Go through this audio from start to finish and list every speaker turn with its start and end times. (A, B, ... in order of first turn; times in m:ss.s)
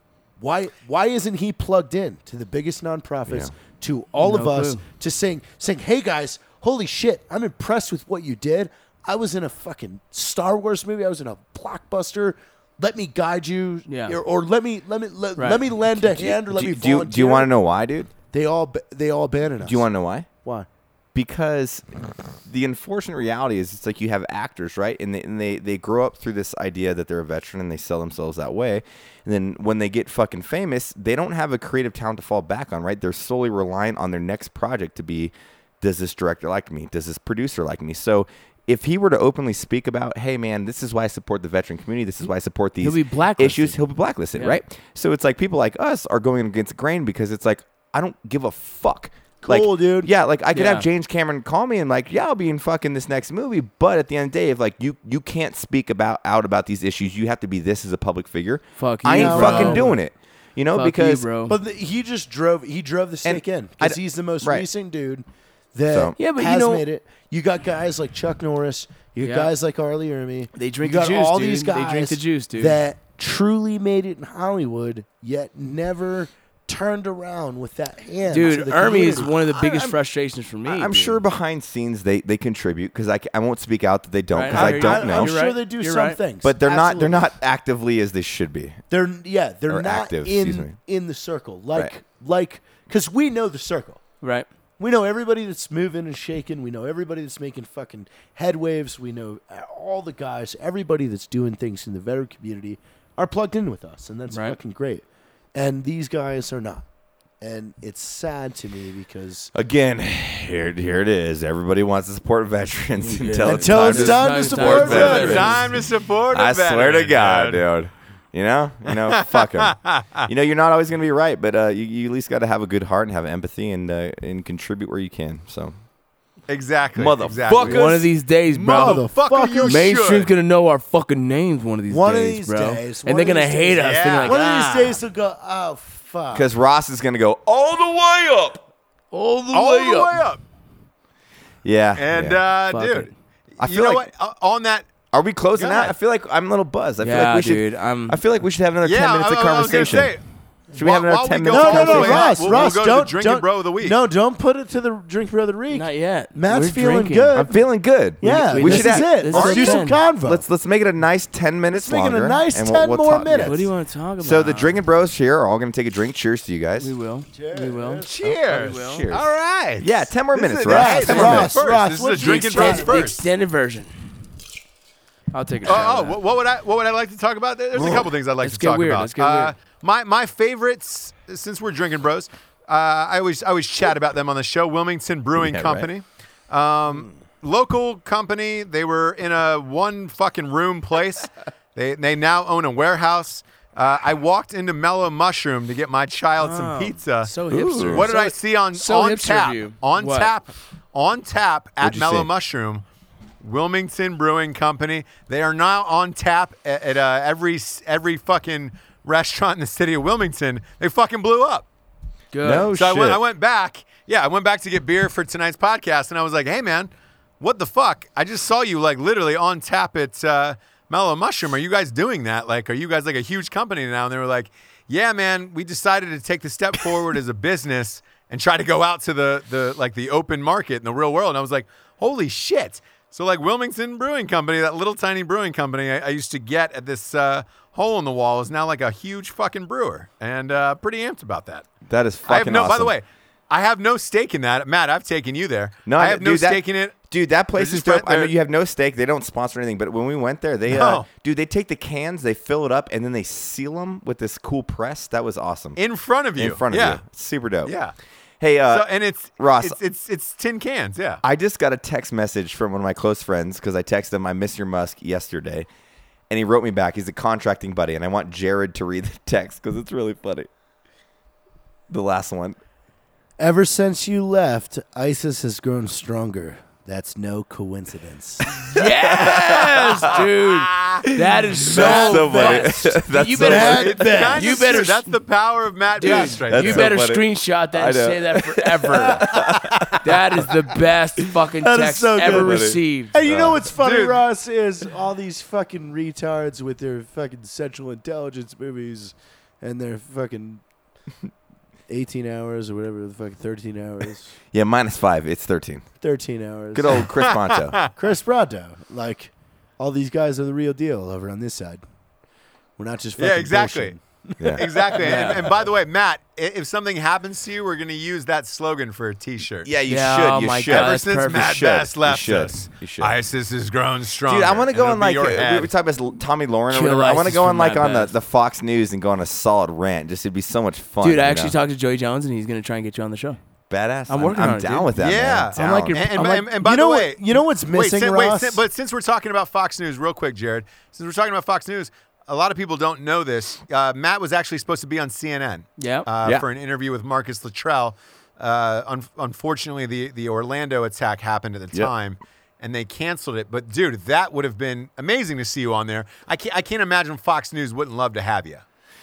0:00.4-0:17.5 A
0:04.2-0:04.8 B
0:13.9-0:14.2 B
0:15.4-0:15.7 B
0:16.1-0:18.1 C
0:18.2-0:19.9 A
0:19.6-0:20.3 C
0:21.1-1:01.2 C
0:42.8-0:43.8 B
0:49.4-0:50.1 A
0:50.5-0:50.9 B
0:58.8-1:00.0 B
0:59.1-0:59.9 A
1:00.7-1:01.6 B
1:01.5-1:20.0 A
1:03.2-1:04.7 C
1:05.9-1:06.2 C
1:06.2-1:06.8 B
1:09.2-1:09.5 B
1:10.5-1:12.8 B
1:18.3-1:21.2 B
1:20.6-1:25.4 C
1:24.3-1:26.2 B
1:24.5-1:27.3 A
1:26.4-1:28.8 C
1:28.9-1:34.0 A
1:29.7-1:30.8 C
1:34.2-1:34.5 B
1:34.8-1:46.8 A
1:44.3-1:44.6 B
1:47.4-1:49.5 A
1:49.5-2:05.7 C
1:53.0-1:55.7 B
1:53.4-1:55.6 A
1:54.7-1:57.7 D
1:58.9-2:00.3 D
2:06.5-2:08.0 D
2:07.0-2:08.0 C
2:07.5-2:09.1 B
2:08.5-2:10.3 D
2:08.7-2:09.9 A
2:09.6-2:15.0 B
2:11.9-2:16.5 A
2:13.8-2:14.4 D
2:16.3-2:18.6 C
2:19.1-2:20.2 B
2:19.5-2:20.4 D
2:21.6-2:22.4 C
2:22.0-2:24.9 D
2:22.7-2:23.1 B
2:23.6-2:24.0 C
2:25.1-2:30.1 C
2:25.6-2:25.9 D
2:27.0-2:28.2 B
2:28.8-2:30.2 D
2:30.7-2:32.6 C
2:30.7-2:34.0 D
2:31.5-2:37.6 A
2:35.7-2:37.4 B
2:37.3-2:43.7 C
2:38.2-2:40.4 A
2:38.2-2:40.0 B
2:41.7-2:43.7 A
2:43.3-2:44.8 B
2:44.2-2:46.9 C
2:46.8-2:49.1 B
2:47.3-2:48.4 A
2:48.0-2:53.2 D
2:48.6-2:51.6 C
2:50.6-2:53.0 A
2:51.1-2:51.5 B
2:52.2-2:53.9 B
2:55.3-2:56.2 B
2:55.6-3:22.8 D
2:57.9-2:59.5 B
3:05.4-3:05.9 C
3:16.4-3:20.3 B
3:17.5-3:18.0 C
3:21.8-3:22.3 C
3:23.4-3:31.6 D
3:32.3-3:32.7 B
3:32.4-3:33.2 C
3:32.7-4:01.7 D
4:01.9-4:02.9 C
4:02.3-4:07.0 D
4:05.9-4:15.8 C
4:07.5-4:08.3 D
4:10.7-4:11.1 D
4:15.8-4:17.0 D
4:16.4-4:17.7 C
4:17.6-4:17.9 D
4:18.4-4:18.9 C
4:18.7-4:21.2 D
4:19.4-4:19.8 C
4:21.2-4:25.7 C
4:26.3-4:30.5 C
4:31.9-4:32.6 C
4:33.4-4:38.6 A
4:38.5-4:45.1 B
4:38.6-4:40.2 C
4:40.4-4:41.0 D
4:41.0-4:44.1 C
4:41.7-4:42.7 A
4:43.4-4:44.9 A
4:43.6-4:46.9 D
4:46.0-4:53.1 B
4:46.0-4:50.0 C
4:51.6-5:00.6 A
4:52.2-4:53.6 C
4:53.7-4:54.2 D
5:01.9-5:04.3 A
5:04.5-5:05.8 C
5:06.0-5:07.1 A
5:06.7-5:07.8 C
5:07.1-5:07.9 D
5:07.9-5:11.8 A
5:12.8-5:15.3 A
5:13.2-5:14.0 D
5:14.4-5:15.3 C
5:14.5-5:19.7 D
5:15.0-5:15.4 B
5:19.6-5:23.1 C
5:19.9-5:21.5 B
5:20.7-5:25.7 D
5:24.3-5:31.5 C
5:26.7-5:28.1 B
5:31.0-5:33.4 B
5:33.7-5:36.0 C
5:34.1-5:34.9 B
5:35.0-5:58.6 D
5:35.5-5:36.5 B
5:36.2-5:38.6 A
5:45.8-5:46.1 B